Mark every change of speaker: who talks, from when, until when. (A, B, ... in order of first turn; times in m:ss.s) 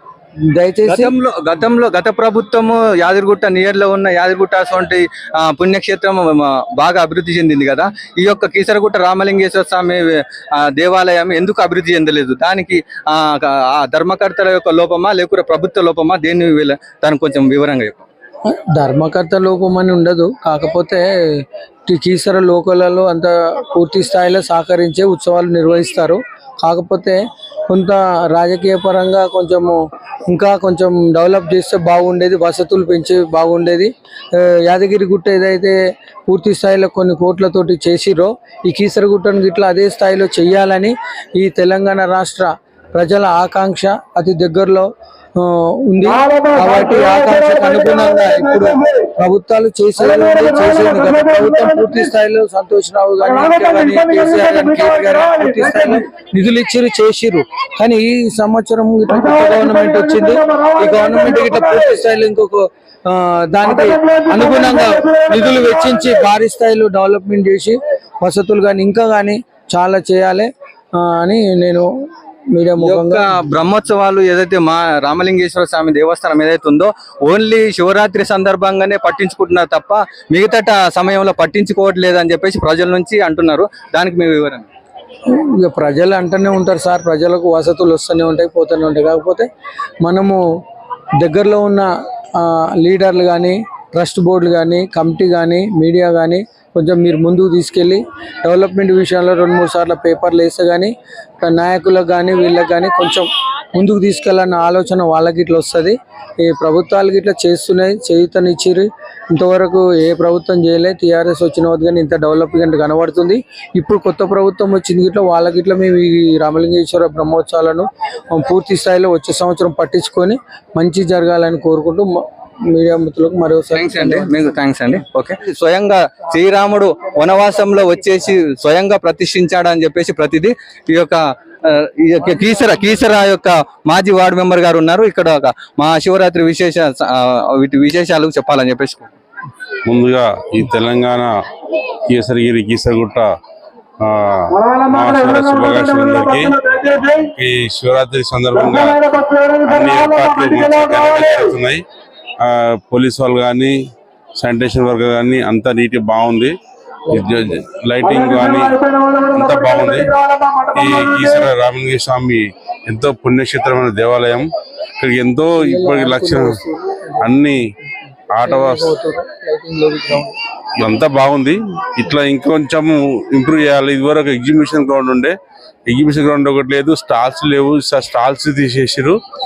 0:00.5-0:01.1 A
0:00.9-0:10.1 B
0:10.6-0:18.0 B
0:18.5-0:21.1 A
0:21.9-0:27.2 A
0:27.7-0:35.8 A
0:36.3-1:11.9 A
1:12.5-1:13.2 A
1:12.8-1:24.7 B
1:25.3-1:29.4 A
1:30.0-1:30.4 A
1:31.2-2:04.5 A
2:03.7-2:19.1 B
2:19.8-2:21.3 C
2:22.1-2:23.3 C
2:24.0-2:31.8 C
2:32.4-2:33.8 C
2:34.4-2:36.5 C
2:37.1-2:37.6 A
2:37.1-2:38.8 C
2:39.3-2:40.2 C
2:40.7-2:44.5 C
2:45.0-2:46.6 C
2:45.5-2:47.3 A
2:47.2-2:47.6 C
2:48.3-2:48.9 C
2:48.4-2:50.4 A
2:50.8-2:55.3 C
2:55.9-2:59.2 C